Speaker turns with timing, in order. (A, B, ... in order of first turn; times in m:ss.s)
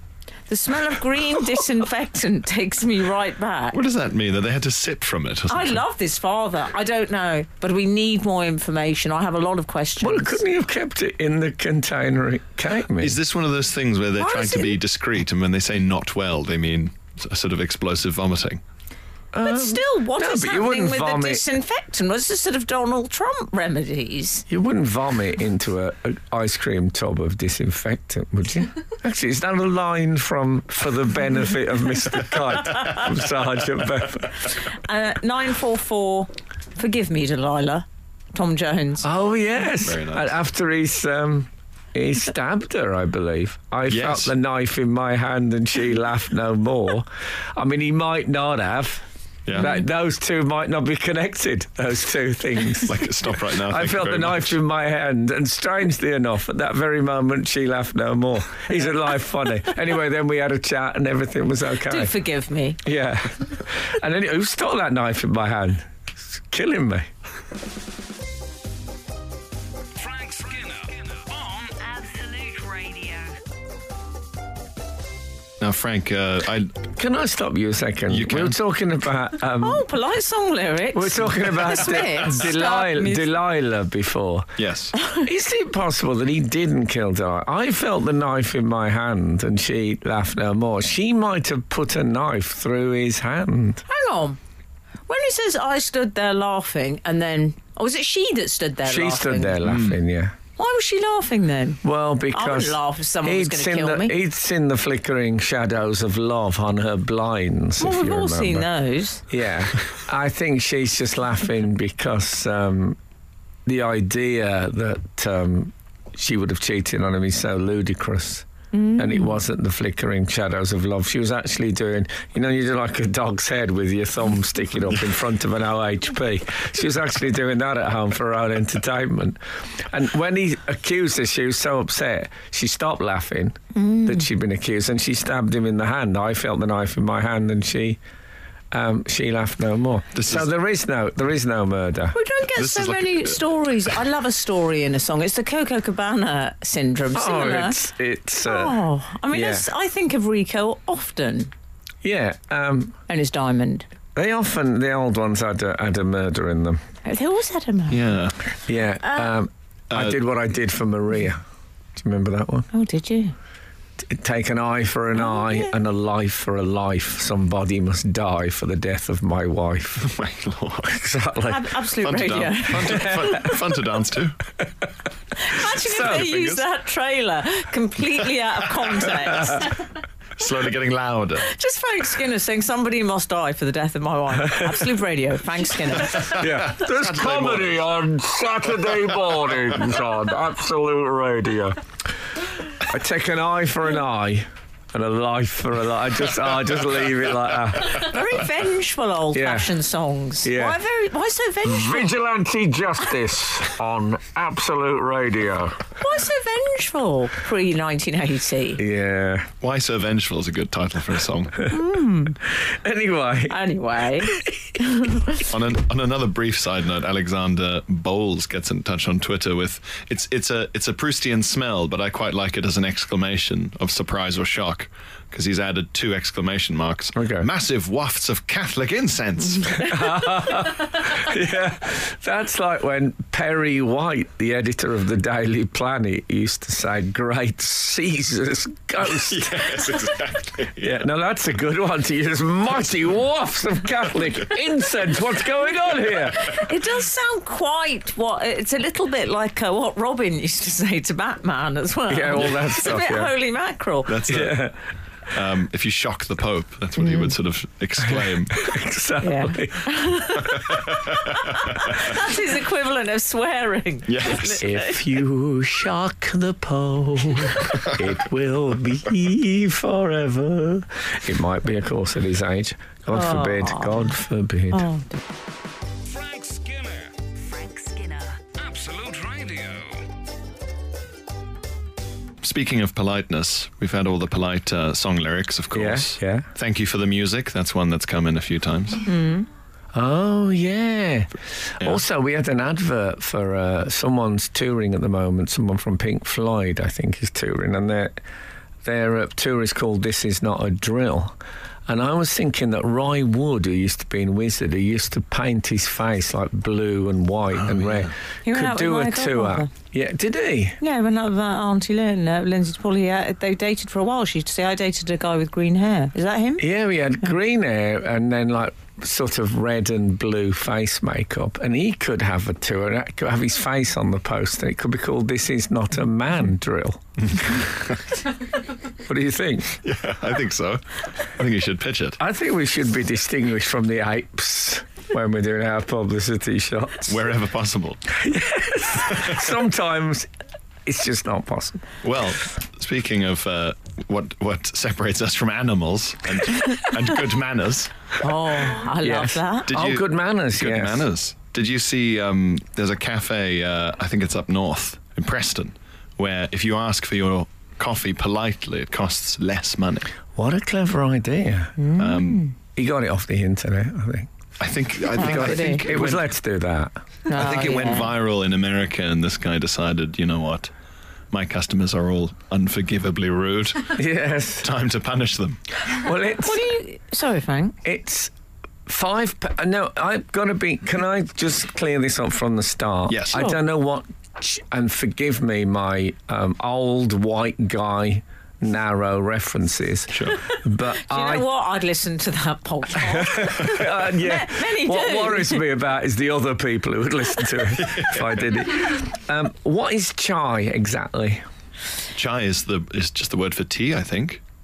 0:00.5-0:03.8 A
0:03.7-0:05.8 B
0:05.5-0:10.4 A
0:10.0-0:13.2 C
0:13.0-0:18.6 B
0:14.2-0:14.8 A
0:19.3-0:21.4 C
0:19.4-0:24.5 A
0:24.5-0:34.6 C
0:34.6-0:39.1 A
0:39.0-0:53.1 C
0:39.8-0:40.3 B
0:43.9-0:44.3 B
0:52.8-0:54.6 B
0:53.6-1:02.2 C
1:01.8-1:02.8 A
1:02.8-1:07.1 C
1:10.0-1:11.7 D
1:11.7-1:13.4 E
1:15.6-1:16.8 B
1:16.9-1:19.9 C
1:18.1-1:18.6 B
1:19.6-1:23.3 A
1:20.9-1:24.5 C
1:24.6-1:24.9 B
1:25.0-1:25.2 A
1:25.1-1:33.8 C
1:33.9-1:34.4 A
1:35.1-1:39.6 A
1:38.8-1:40.4 C
1:39.6-1:40.0 B
1:40.6-1:41.8 A
1:41.8-1:48.7 C
1:42.3-1:44.2 A
1:47.8-1:49.2 A
1:49.3-1:53.0 C
1:53.7-2:18.0 C
1:58.7-1:59.4 A
2:13.8-2:14.3 A
2:18.7-2:22.2 C
2:20.2-2:20.5 B
2:22.1-2:27.8 A
2:22.6-2:23.4 B
2:27.1-2:28.8 C
2:28.4-2:31.5 A
2:29.3-2:29.7 C
2:32.0-2:33.0 C
2:33.1-2:33.9 A
2:34.2-2:36.8 C
2:37.0-2:38.1 A
2:37.9-2:38.4 B
2:38.6-2:41.4 C
2:39.0-2:39.3 A
2:39.9-2:40.2 B
2:42.0-2:42.7 C
2:42.7-2:43.3 A
2:44.0-2:50.1 C
2:45.3-2:45.6 A
2:50.0-2:51.0 B
2:50.8-2:51.7 C
2:51.5-2:53.2 A
2:52.0-2:54.4 B
2:52.7-2:53.6 C
2:55.4-2:59.8 A
2:55.6-2:56.6 B
2:55.8-2:56.3 C
3:00.4-3:01.5 B
3:01.4-3:06.4 A
3:06.1-3:11.8 C
3:06.2-3:07.8 B
3:12.8-3:18.2 C
3:17.8-3:22.1 A
3:19.3-3:19.7 C
3:20.4-3:20.8 C
3:21.6-3:25.9 C
3:26.0-3:28.8 A
3:28.8-3:29.5 C
3:29.6-3:31.7 B
3:31.7-3:32.4 A
3:32.5-3:33.6 C
3:33.5-3:34.4 A
3:34.2-3:35.1 C
3:35.4-3:50.0 B
3:47.2-3:47.5 C
3:49.8-3:59.7 C
3:59.1-4:01.0 B
4:00.8-4:06.6 C
4:06.3-4:14.2 A
4:12.1-4:13.3 C
4:14.1-4:14.7 B
4:14.3-4:14.8 C
4:15.3-4:18.7 B
4:18.5-4:20.6 C
4:19.2-4:25.0 A
4:24.1-4:24.6 B
4:24.6-4:34.9 C
4:33.1-4:34.1 A
4:34.7-4:35.2 A
4:36.0-4:37.2 D
4:37.4-4:38.4 E
4:38.6-4:40.1 D
4:42.4-4:49.0 B
4:45.7-4:46.5 C
4:49.0-4:49.5 A
4:49.9-4:58.2 C
4:58.8-5:01.4 C
5:01.9-5:10.8 C
5:07.7-5:08.1 B
5:08.4-5:09.7 A
5:10.8-5:16.7 A
5:16.6-5:27.7 C
5:29.0-5:29.8 C
5:29.8-5:32.2 B
5:32.2-5:37.2 C
5:37.1-5:38.0 B
5:38.1-5:40.3 C
5:40.9-5:41.9 C
5:42.0-5:48.1 B
5:48.2-5:49.7 A
5:49.0-5:51.1 C
5:49.7-6:00.1 B
6:00.4-6:01.9 C
6:01.8-6:02.5 A
6:02.0-6:02.4 B
6:02.8-6:04.3 C
6:04.6-6:06.3 B
6:05.2-6:08.0 C
6:05.2-6:05.8 A
6:07.3-6:08.1 A
6:07.3-6:10.7 B
6:11.3-6:14.0 B
6:13.9-6:14.7 C
6:14.6-6:15.6 B
6:15.9-6:16.6 C
6:16.3-6:17.8 A
6:17.8-6:18.3 C
6:18.9-6:31.4 C
6:23.1-6:23.4 B
6:30.1-6:30.4 B
6:30.9-6:35.7 A
6:33.1-6:41.4 C
6:37.8-6:38.2 B
6:42.2-6:44.4 B